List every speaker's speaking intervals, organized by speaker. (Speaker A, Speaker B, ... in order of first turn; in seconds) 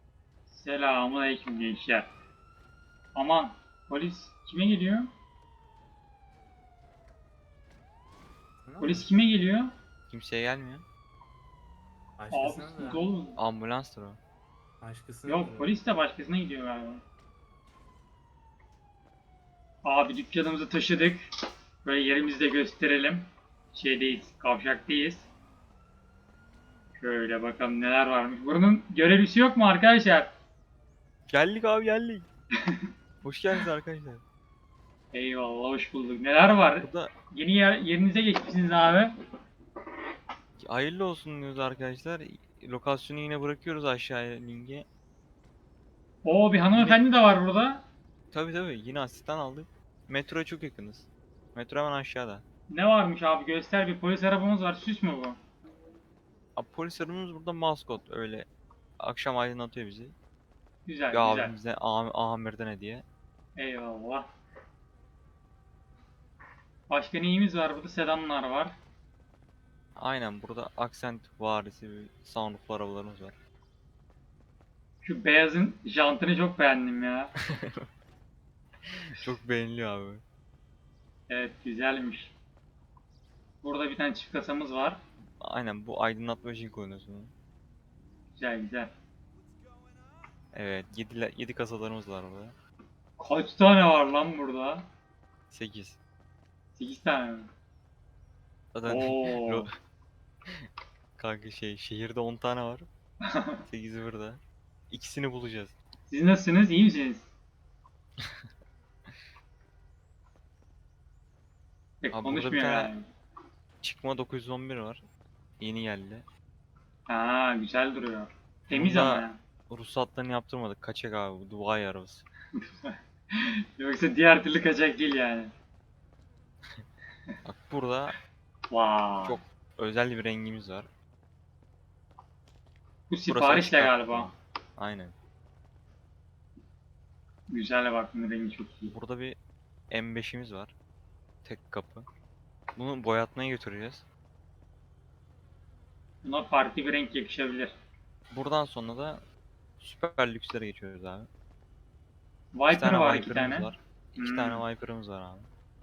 Speaker A: 0.5-2.1, 3.1-5.1, 8.8-9.7, 12.3-13.4, 15.2-17.0, 19.8-21.2, 21.8-25.3, 27.0-30.3, 35.1-39.1, 46.2-47.8, 52.7-55.4, 60.9-61.5, 63.6-64.3, 66.9-68.7, 75.0-77.3, 81.3-82.3, 83.6-85.0, 88.4-88.9, 93.2-94.8, 96.8-97.5, 98.8-99.7, 103.3-103.6, 106.1-107.3, 112.0-113.1, 117.1-119.4, 122.6-125.5, 128.7-129.4, 133.1-134.3, 137.5-138.9, 146.2-147.7, 152.5-154.6
Speaker B: 8.6-9.1, 12.2-13.0, 14.8-15.7
Speaker C: 10.1-10.8, 13.3-14.2, 31.3-32.3, 33.2-34.2, 36.8-37.1, 40.6-44.9, 46.7-47.0, 48.3-52.4, 56.5-58.5, 59.0-60.1, 61.1-63.0, 70.0-73.4, 77.4-77.9, 78.8-80.2, 85.4-87.3, 90.5-92.5, 95.5-96.0, 98.7-99.7, 100.5-102.9, 103.7-105.8, 108.2-108.4, 112.1-112.9, 113.8-115.0, 115.6-116.2, 118.7-122.2, 127.4-128.2, 129.2-130.9, 133.3-135.1, 138.9-139.4, 139.9-140.7, 141.4-142.1, 142.8-144.1, 148.3-149.2, 149.8-151.3, 152.7-155.5